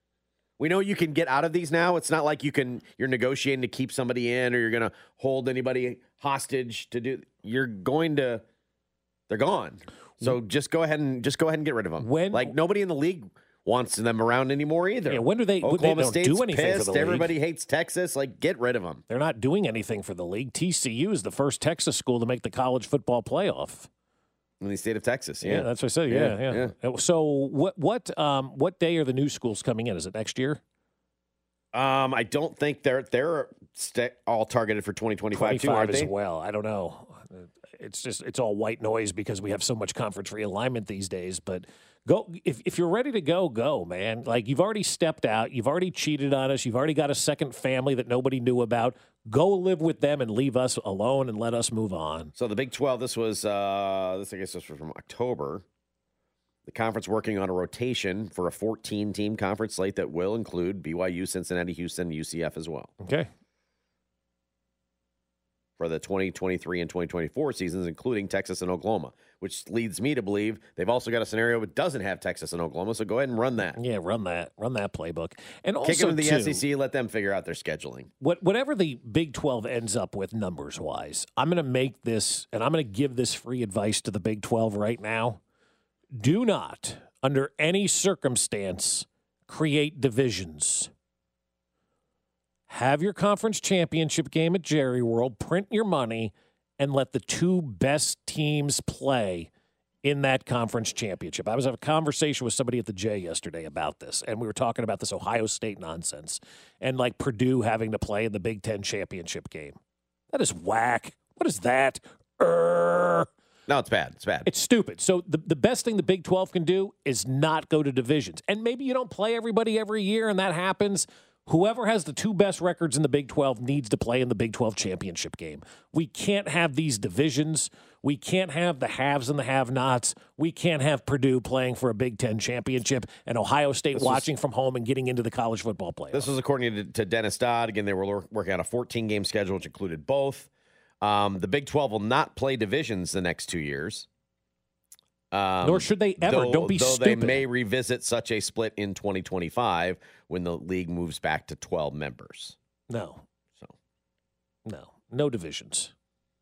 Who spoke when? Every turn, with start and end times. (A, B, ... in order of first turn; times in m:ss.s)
0:00.6-0:08.4 A
0:09.3-0:19.0 A
0:12.0-0:12.5 B
0:15.1-0:17.3 B
0:19.1-0:23.9 B
0:24.6-0:26.7 A
0:25.4-0:30.6 B
0:31.7-0:36.1 A
0:35.3-0:52.3 B
0:52.4-0:55.6 A
0:56.6-1:02.9 A
1:03.0-1:03.3 B
1:05.8-1:13.8 A
1:13.8-1:16.6 B
1:15.8-1:18.1 A
1:18.2-1:25.4 B
1:26.1-1:30.9 B
1:32.7-1:39.5 B
1:40.0-1:49.8 B
1:50.3-1:53.3 B
1:53.7-1:54.5 A
1:54.4-2:16.3 B
2:13.9-2:14.3 A
2:16.1-2:20.5 A
2:21.0-2:24.1 A
2:25.3-2:32.6 A
2:25.6-2:27.4 B
2:32.9-2:33.2 B
2:34.6-2:35.9 B